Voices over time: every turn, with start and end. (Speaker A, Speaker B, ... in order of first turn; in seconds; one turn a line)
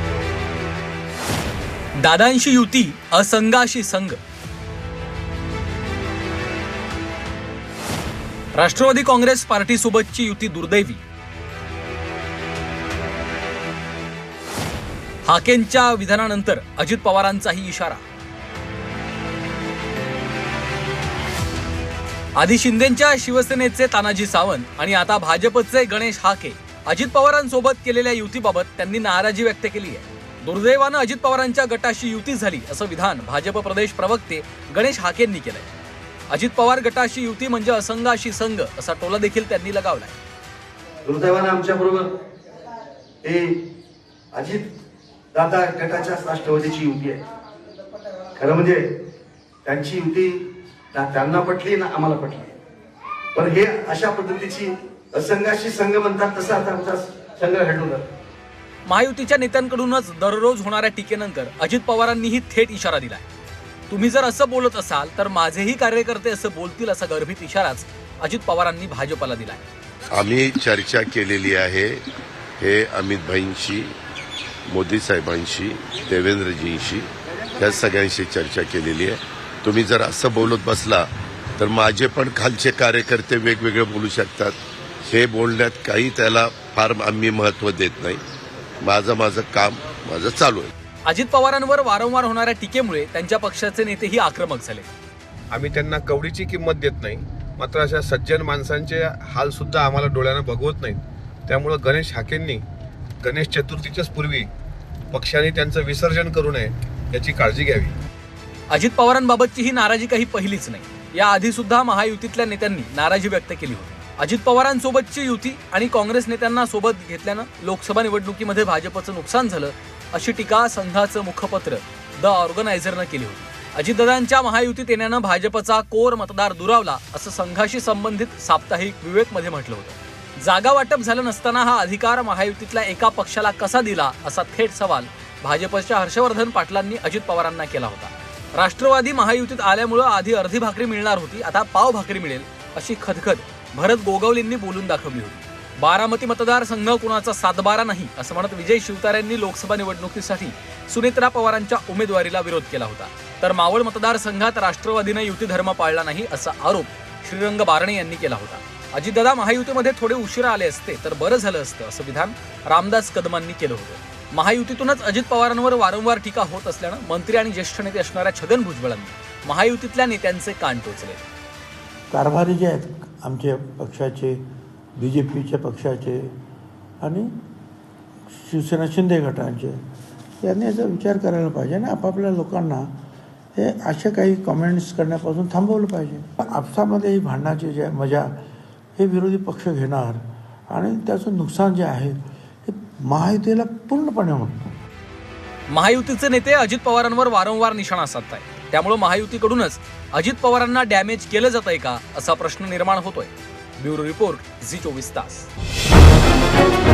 Speaker A: 2.0-4.2
Speaker A: 8.5-11.0
Speaker A: 15.2-18.0
Speaker A: 22.4-35.7
Speaker A: 36.3-40.2
Speaker B: 41.0-42.1
Speaker B: 43.2-43.6
Speaker B: 44.3-44.7
Speaker B: 45.3-47.2
Speaker B: 48.3-48.9
Speaker B: 49.6-52.5
Speaker B: 53.3-58.1
Speaker A: 58.9-63.2
Speaker A: 63.9-69.6
Speaker C: 70.1-72.0
Speaker C: 72.6-73.9
Speaker C: 74.7-88.2
Speaker C: 88.8-90.7
Speaker A: 91.0-94.9
Speaker D: 95.5-102.6
Speaker D: 103.2-104.5
Speaker D: 105.1-108.0
Speaker A: 108.7-171.2
Speaker E: 172.1-174.4
Speaker E: 175.0-176.3
Speaker E: 177.0-177.3
Speaker E: 178.4-179.8
Speaker E: 180.4-182.9
Speaker E: 183.5-188.3
Speaker E: 189.0-194.6
Speaker A: 195.7-205.5